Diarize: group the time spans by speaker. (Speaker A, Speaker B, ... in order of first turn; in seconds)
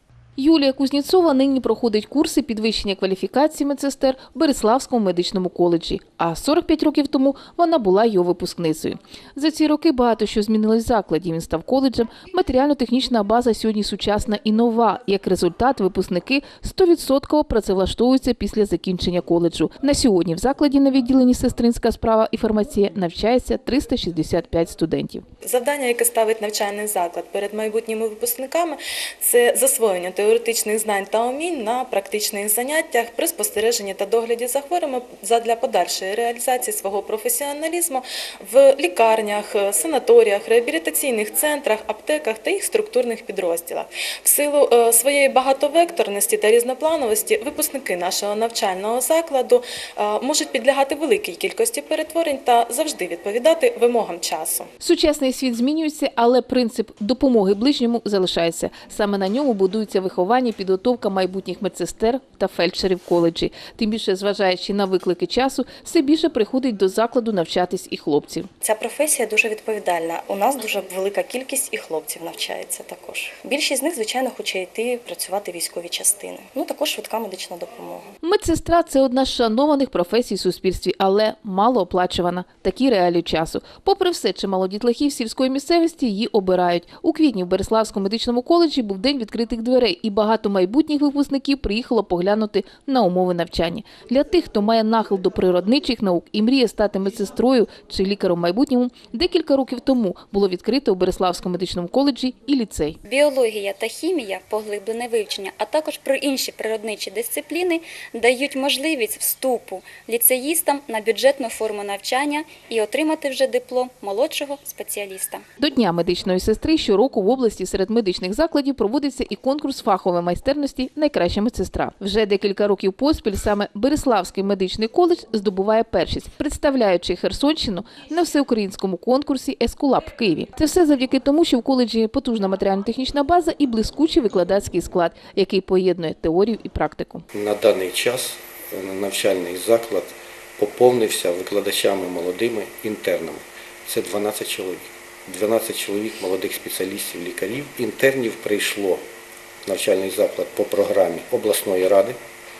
Speaker A: 0.4-25.2, 54.8-68.5, 78.2-103.0, 115.6-137.2
Speaker B: 25.4-54.7
Speaker C: 68.6-78.0
Speaker D: 103.0-115.4
Speaker E: 137.3-149.0, 149.7-152.1